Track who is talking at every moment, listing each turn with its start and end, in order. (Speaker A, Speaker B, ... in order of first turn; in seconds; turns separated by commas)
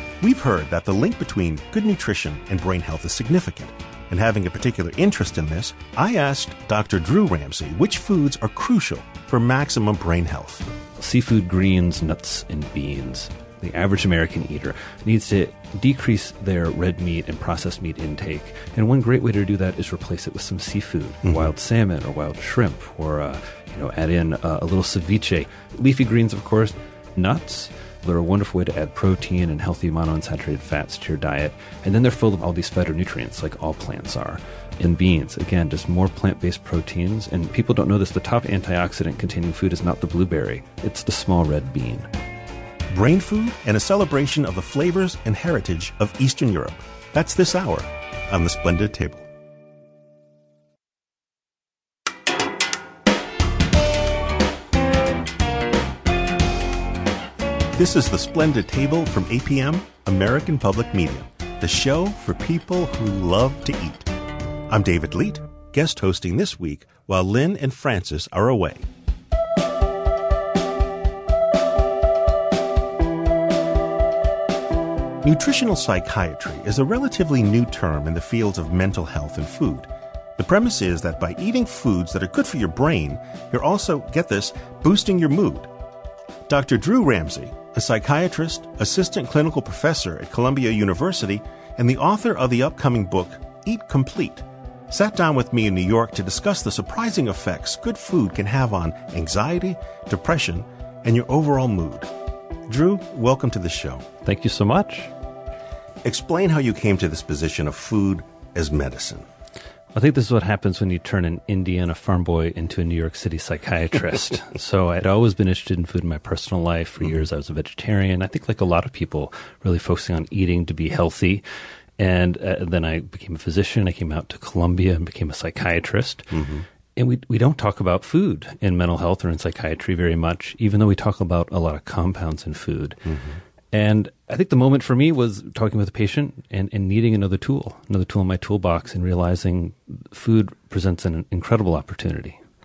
Speaker A: 0.2-10.7, Speaker B: 11.0-42.1, Speaker A: 21.2-21.5, Speaker A: 42.9-49.3, Speaker A: 57.7-64.1, Speaker A: 64.7-68.9, Speaker A: 75.2-85.7, Speaker A: 86.5-102.1, Speaker A: 102.7-104.1, Speaker B: 104.2-105.1, Speaker A: 106.0-109.3, Speaker B: 109.9-121.4, Speaker B: 122.0-126.4, Speaker A: 126.3-126.7, Speaker B: 127.0-133.1, Speaker A: 133.1-133.4, Speaker B: 133.7-142.4